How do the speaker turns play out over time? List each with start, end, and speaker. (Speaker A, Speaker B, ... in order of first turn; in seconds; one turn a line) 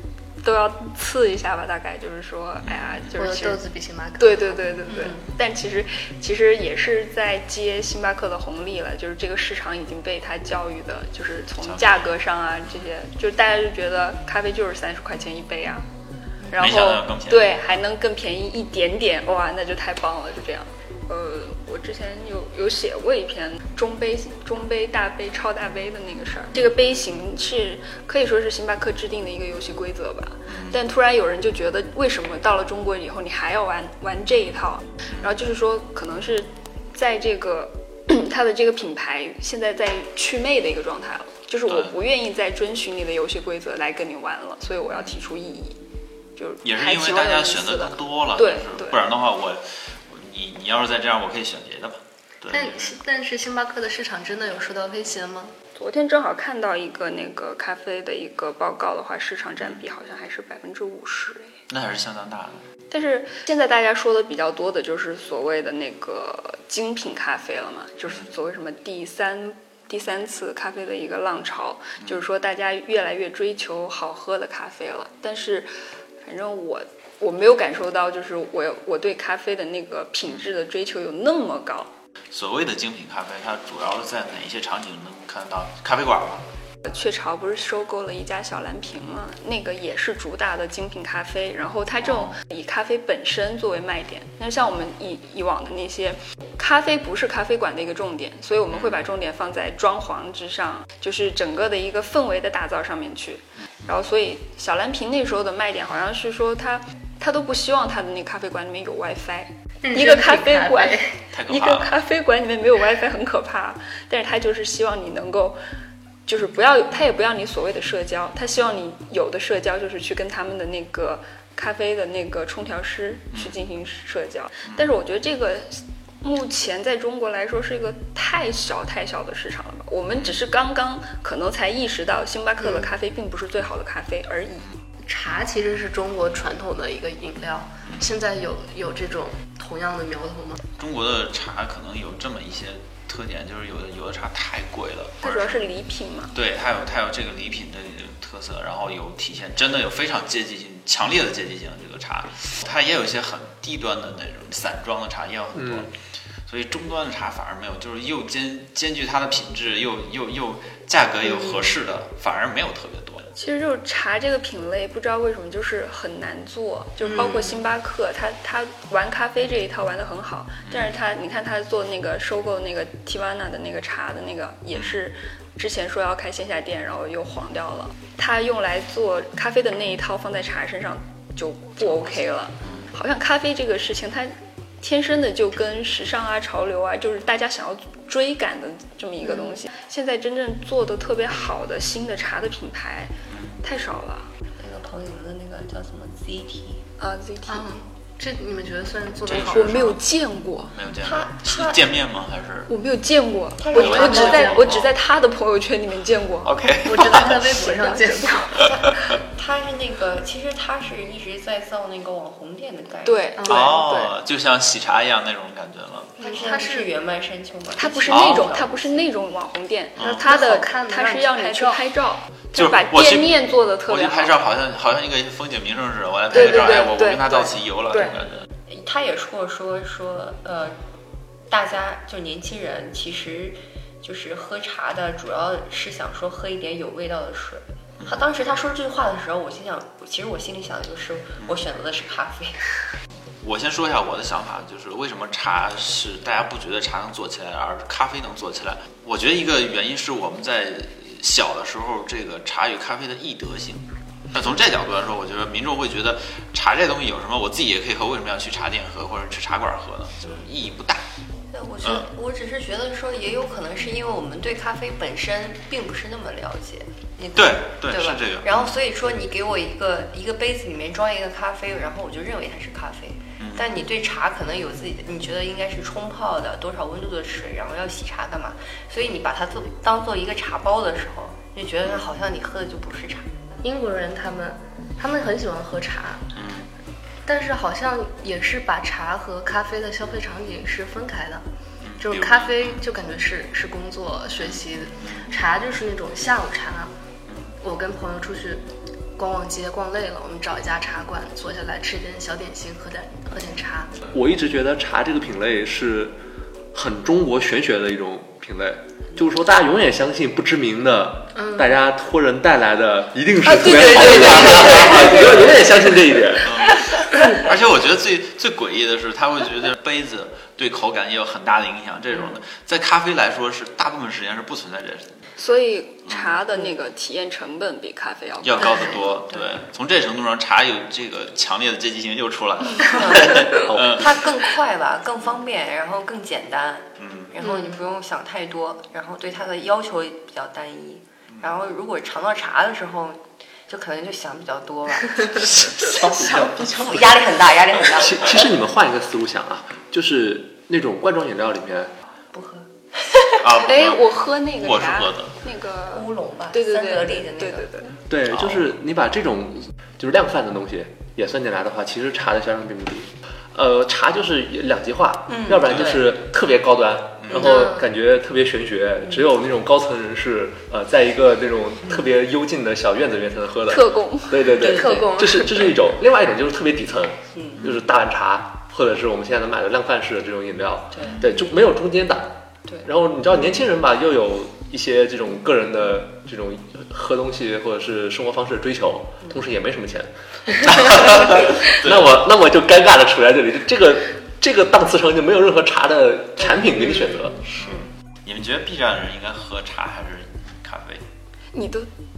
Speaker A: 0.4-3.6
Speaker B: 2.6-3.2
Speaker C: 3.1-5.1
Speaker A: 4.2-15.9
Speaker B: 11.6-12.1
Speaker A: 16.5-45.8
Speaker B: 16.6-17.5
Speaker B: 30.5-30.8
Speaker B: 41.7-42.0
Speaker A: 46.4-49.0
Speaker B: 46.6-53.0
Speaker C: 52.5-55.5
Speaker A: 55.8-61.6
Speaker B: 59.6-59.8
Speaker B: 61.7-62.7
Speaker A: 62.9-75.7
Speaker B: 68.0-68.3
Speaker A: 76.2-81.9
Speaker B: 82.3-86.5
Speaker A: 86.8-115.6
Speaker B: 92.0-92.4
Speaker B: 98.7-99.1
Speaker C: 109.8-111.2
Speaker B: 111.3-111.9
Speaker A: 116.3-134.8
Speaker B: 124.7-125.0
Speaker C: 132.6-132.9
Speaker C: 135.1-140.6
Speaker B: 137.8-138.1
Speaker B: 140.8-145.7
Speaker A: 145.2-146.3
Speaker B: 146.3-155.9
Speaker D: 155.5-155.9
Speaker B: 156.5-163.3
Speaker A: 163.3-194.3
Speaker B: 167.0-167.4
Speaker E: 167.2-167.6
Speaker B: 170.7-170.9
Speaker B: 174.8-175.0
Speaker B: 181.8-182.1
Speaker B: 182.6-182.9
Speaker B: 193.3-193.6
Speaker E: 194.6-196.8
Speaker A: 197.0-197.7
Speaker C: 197.5-200.0
Speaker B: 199.3-199.8
Speaker A: 199.5-200.8
Speaker B: 200.7-202.7
Speaker E: 201.0-201.8
Speaker A: 202.7-206.6
Speaker E: 203.6-204.7
Speaker B: 203.7-204.9
Speaker C: 203.8-204.8
Speaker B: 206.4-207.5
Speaker C: 206.8-208.7
Speaker A: 207.6-208.0
Speaker E: 208.5-213.5
Speaker A: 213.0-214.1
Speaker C: 213.4-213.7
Speaker B: 213.5-216.4
Speaker E: 216.2-219.1
Speaker C: 216.2-216.9
Speaker A: 217.7-224.4
Speaker B: 218.1-218.5
Speaker B: 220.0-220.3
Speaker C: 220.0-221.9
Speaker B: 222.5-228.5
Speaker A: 226.3-228.2
Speaker E: 228.7-230.8
Speaker E: 231.5-242.6
Speaker B: 243.4-261.0
Speaker E: 254.4-254.7
Speaker E: 261.5-283.3
Speaker B: 261.8-262.1
Speaker B: 267.3-268.7
Speaker B: 273.4-273.8
Speaker C: 283.6-286.2
Speaker B: 286.4-286.7
Speaker C: 287.2-291.4
Speaker B: 291.8-292.8
Speaker C: 292.0-296.9
Speaker B: 294.4-295.3
Speaker B: 297.3-297.5
Speaker C: 297.6-303.9
Speaker D: 304.1-306.2
Speaker D: 306.7-316.5
Speaker C: 311.4-311.7
Speaker E: 313.5-315.9
Speaker B: 316.4-316.8
Speaker B: 317.4-325.1
Speaker A: 325.4-329.2
Speaker B: 326.1-326.4
Speaker E: 326.5-326.8
Speaker B: 328.4-334.2
Speaker E: 328.6-329.6
Speaker E: 332.8-348.4
Speaker D: 333.6-334.0
Speaker B: 337.0-337.4
Speaker D: 346.1-347.0
Speaker D: 347.9-351.9
Speaker E: 352.3-353.5
Speaker B: 353.4-355.4
Speaker A: 353.6-358.0
Speaker E: 355.9-357.7
Speaker D: 358.1-397.4
Speaker B: 358.3-358.6
Speaker E: 365.3-366.1
Speaker B: 367.2-367.5
Speaker E: 367.3-367.7
Speaker A: 373.7-374.4
Speaker E: 374.4-375.2
Speaker C: 374.7-375.7
Speaker E: 377.4-377.7
Speaker E: 380.9-381.5
Speaker B: 391.7-392.0
Speaker E: 396.4-397.9
Speaker B: 398.2-401.0
Speaker A: 401.5-401.9